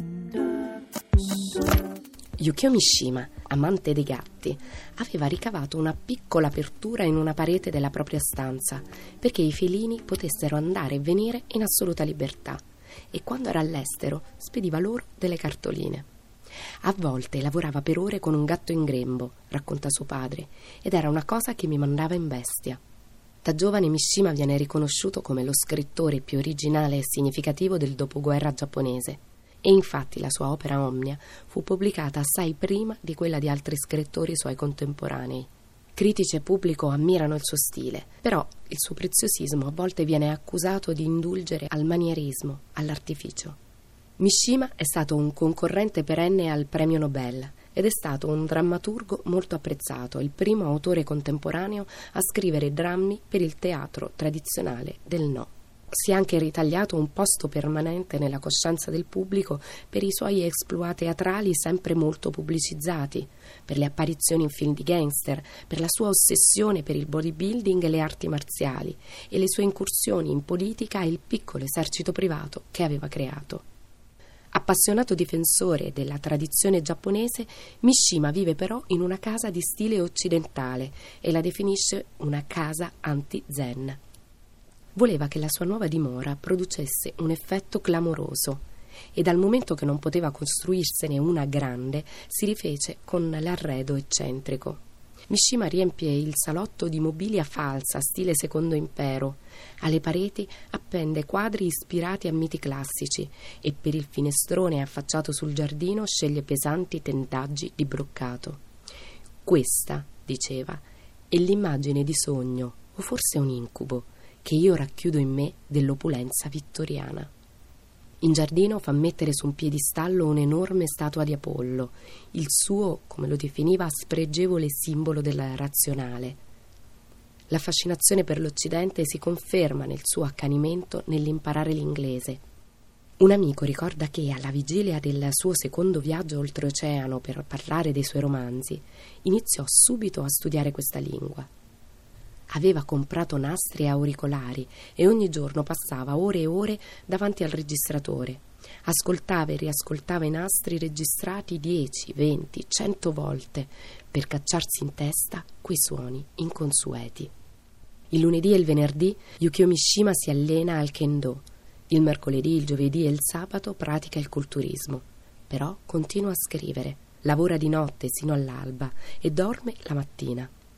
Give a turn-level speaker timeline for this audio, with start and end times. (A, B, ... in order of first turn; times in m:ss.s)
0:02.4-0:16.1 A
0:16.8-0:22.8 A
0:23.4-0:43.6 A
0:44.2-1:13.6 A
1:14.5-1:24.0 A
1:25.0-1:48.6 A
1:49.4-1:57.3 A
1:58.2-2:06.4 A
2:07.5-2:12.4 A
2:13.2-2:21.5 A
2:22.5-2:37.3 A
2:38.1-2:50.5 A